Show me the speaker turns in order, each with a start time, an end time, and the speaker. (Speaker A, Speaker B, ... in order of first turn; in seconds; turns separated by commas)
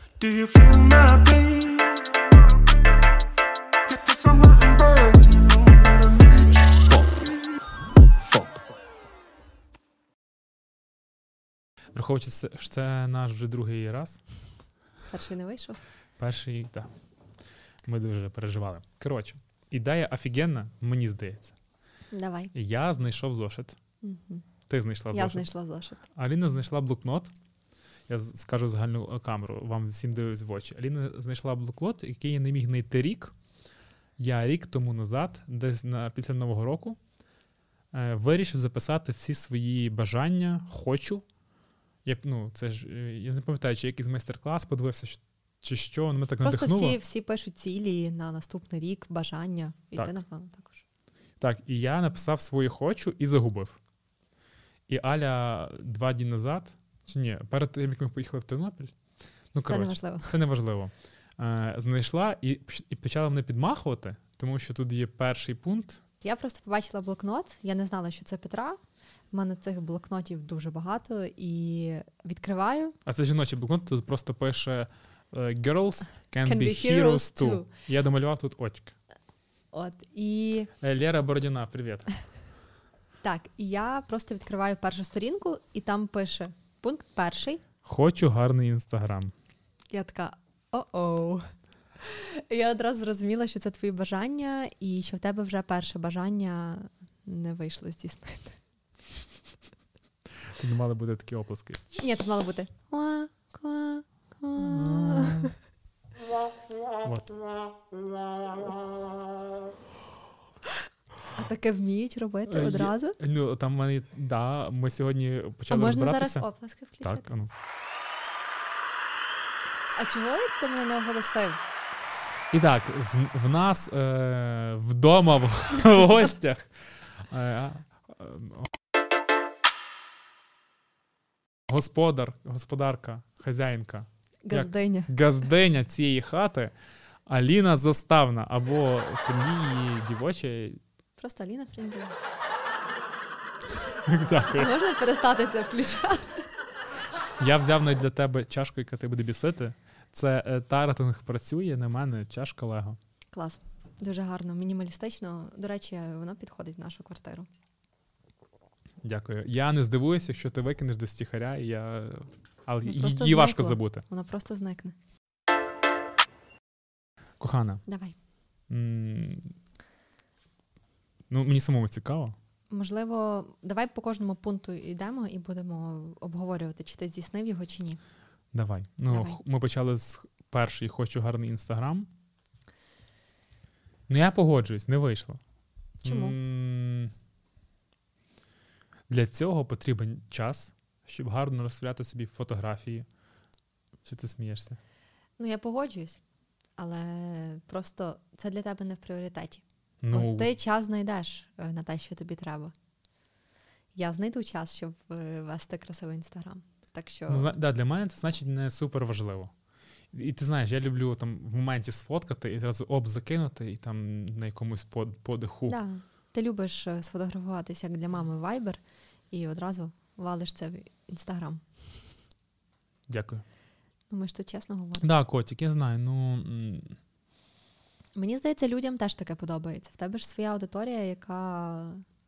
Speaker A: 0.2-2.1, Speaker A: 3.9-7.3, Speaker A: 8.2-8.6, Speaker B: 11.9-14.2, Speaker C: 15.1-15.8, Speaker B: 16.2-16.9, Speaker B: 17.9-21.6, Speaker C: 22.1-22.5, Speaker B: 22.5-23.8, Speaker C: 24.0-24.4, Speaker B: 24.7-25.5, Speaker C: 25.1-26.0, Speaker B: 26.1-27.3, Speaker B: 28.1-33.4, Speaker B: 34.2-37.0, Speaker B: 37.9-41.2, Speaker B: 42.0-47.0, Speaker C: 46.4-50.8, Speaker B: 51.4-53.8, Speaker B: 54.9-58.9, Speaker B: 59.5-66.0, Speaker C: 59.7-60.4, Speaker C: 66.2-68.8, Speaker C: 69.3-73.0, Speaker B: 73.1-78.9, Speaker C: 76.4-77.7, Speaker C: 79.7-80.7, Speaker B: 80.8-82.1, Speaker C: 83.2-87.6, Speaker B: 87.8-89.3, Speaker C: 89.9-91.5, Speaker C: 92.0-98.6, Speaker B: 100.5-102.0, Speaker C: 102.0-105.5, Speaker B: 104.5-105.5, Speaker B: 107.0-107.3, Speaker C: 111.3-113.2, Speaker B: 112.5-116.4, Speaker C: 115.7-117.3, Speaker B: 117.0-117.5, Speaker C: 120.0-121.6, Speaker B: 122.5-128.7, Speaker B: 131.7-136.7, Speaker C: 134.4-135.1, Speaker B: 137.3-140.8, Speaker C: 141.2-142.2, Speaker B: 143.9-144.8, Speaker C: 144.5-146.4, Speaker B: 147.4-153.0, Speaker C: 153.3-157.5, Speaker B: 159.0-164.0, Speaker C: 162.8-164.9, Speaker B: 167.4-167.8, Speaker C: 167.9-168.2, Speaker B: 168.7-169.5, Speaker B: 171.3-172.4, Speaker C: 172.7-178.0, Speaker B: 178.5-182.1, Speaker C: 179.1-179.4, Speaker B: 184.1-185.4, Speaker C: 186.0-186.4, Speaker B: 186.0-187.1, Speaker B: 189.1-193.1, Speaker B: 194.0-194.8, Speaker C: 195.4-196.2, Speaker C: 196.8-202.7, Speaker B: 200.0-200.5, Speaker C: 203.9-207.6, Speaker B: 207.3-209.5, Speaker B: 210.1-215.8, Speaker C: 215.7-221.6, Speaker B: 223.1-223.4, Speaker C: 224.1-225.1, Speaker B: 225.0-227.0, Speaker C: 228.2-232.0